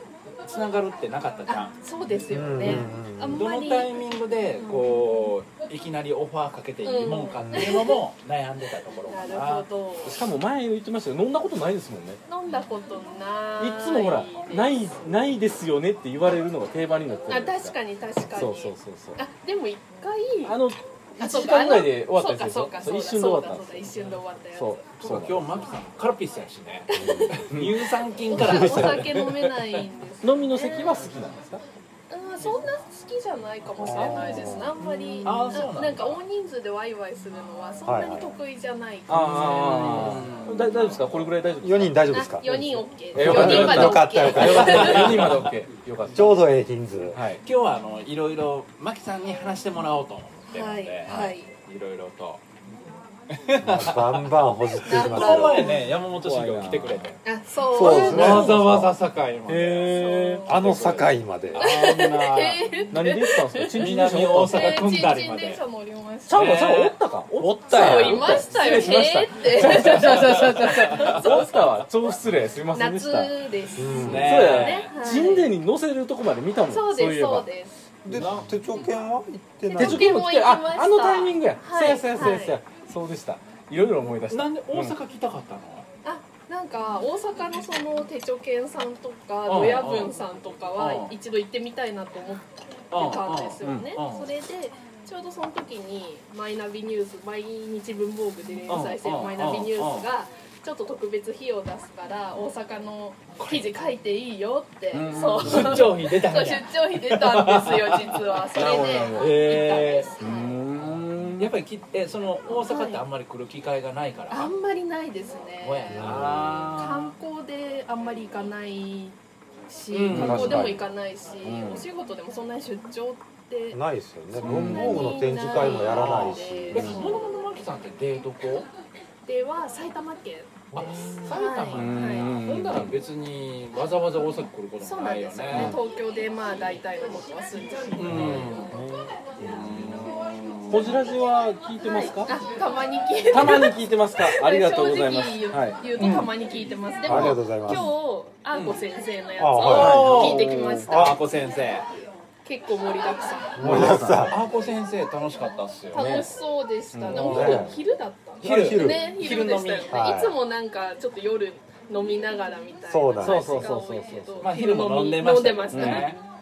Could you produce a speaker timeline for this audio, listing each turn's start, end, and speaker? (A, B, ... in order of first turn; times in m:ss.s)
0:00.4-0:01.8 A
0:01.5-0:04.0 B
0:02.3-0:03.4 C
0:03.3-0:09.7 A
0:04.6-0:04.9 B
0:06.8-0:08.0 B
0:07.4-0:07.8 C
0:09.1-0:10.2 B
0:10.0-0:12.2 D
0:12.3-0:15.0 B
0:13.6-0:17.8 D
0:17.3-0:20.6 B
0:18.3-0:19.2 D
0:20.4-0:24.0 D
0:21.2-0:24.9 B
0:24.5-0:25.6 D
0:25.0-0:29.8 A
0:26.9-0:27.4 B
0:27.0-0:27.4 C
0:27.5-0:27.8 D
0:28.3-0:31.0 B
0:28.4-0:29.0 D
0:30.2-0:31.6 D
0:32.1-0:39.8 B
0:33.8-0:34.7 C
0:34.0-0:35.6 D
0:35.2-0:36.2 A
0:37.9-0:38.3 C
0:39.1-0:46.4 D
0:39.1-0:41.1 A
0:41.6-0:42.5 C
0:42.1-0:45.2 B
0:43.2-0:45.2 C
0:43.2-0:43.7 A
0:44.4-0:45.6 A
0:46.1-0:47.2 C
0:47.1-0:47.4 D
0:47.4-0:52.4 A
0:50.5-0:51.5 B
0:51.1-0:51.3 D
0:53.3-0:57.2 A
0:53.6-0:55.8 C
0:54.8-0:55.8 B
0:56.1-0:57.1 D
0:57.2-0:58.6 B
0:57.7-0:58.9 C
0:57.8-1:00.0 A
0:58.0-0:58.6 D
0:59.5-1:00.8 D
0:59.9-1:00.6 B
1:00.4-1:01.6 C
1:00.6-1:02.6 A
1:01.6-1:06.5 B
1:01.6-1:02.2 D
1:02.9-1:04.9 D
1:03.8-1:05.6 A
1:06.3-1:13.3 D
1:06.3-1:09.0 A
1:07.7-1:11.6 B
1:09.5-1:11.3 A
1:12.7-1:15.5 B
1:13.8-1:14.4 C
1:14.0-1:14.9 A
1:14.1-1:17.5 D
1:16.7-1:17.8 B
1:18.1-1:20.1 C
1:18.1-1:18.5 A
1:19.7-1:22.6 B
1:19.7-1:25.0 D
1:24.3-1:25.9 A
1:26.0-1:50.6 B
1:29.5-1:30.1 A
1:30.8-1:31.1 A
1:32.9-1:34.3 A
1:33.6-1:34.0 D
1:38.7-1:40.1 A
1:43.4-1:43.7 A
1:44.9-1:46.0 D
1:45.4-1:48.1 A
1:48.5-1:49.4 D
1:49.2-1:50.1 A
1:50.2-1:51.6 D
1:51.4-1:54.5 A
1:52.6-1:53.0 B
1:54.3-2:03.8 B
1:55.6-1:57.1 A
1:55.9-1:56.7 C
1:59.9-2:00.7 A
2:00.1-2:00.8 D
2:00.1-2:00.8 C
2:01.4-2:01.9 D
2:03.7-2:07.0 C
2:04.4-2:05.0 A
2:04.4-2:04.7 D
2:04.5-2:07.2 B
2:05.6-2:08.7 A
2:06.8-2:07.1 D
2:09.3-2:12.4 B
2:10.7-2:11.3 C
2:10.7-2:15.8 A
2:11.7-2:13.0 D
2:14.8-2:18.3 B
2:15.5-2:15.8 D
2:18.0-2:18.7 A
2:18.1-2:18.5 C
2:18.1-2:19.1 D
2:19.4-2:19.7 C
2:19.4-2:21.0 A
2:20.7-2:22.4 D
2:21.9-2:31.2 B
2:23.3-2:25.8 D
2:26.0-2:26.3 A
2:27.0-2:27.9 C
2:27.1-2:27.4 D
2:28.5-2:28.8 A
2:29.4-2:30.2 C
2:29.6-2:31.9 A
2:29.7-2:30.9 D
2:30.9-2:31.2 C
2:32.4-2:33.6 B
2:33.6-2:34.4 C
2:33.6-2:34.4 D
2:33.7-2:36.0 A
2:35.9-2:46.2 B
2:35.9-2:36.3 D
2:36.9-2:37.6 D
2:37.1-2:37.7 A
2:37.2-2:37.8 C
2:38.4-2:39.1 C
2:38.4-2:40.1 A
2:39.9-2:40.4 C
2:42.9-2:43.7 C
2:43.2-2:44.5 D
2:44.4-2:46.2 A
2:45.7-2:46.2 D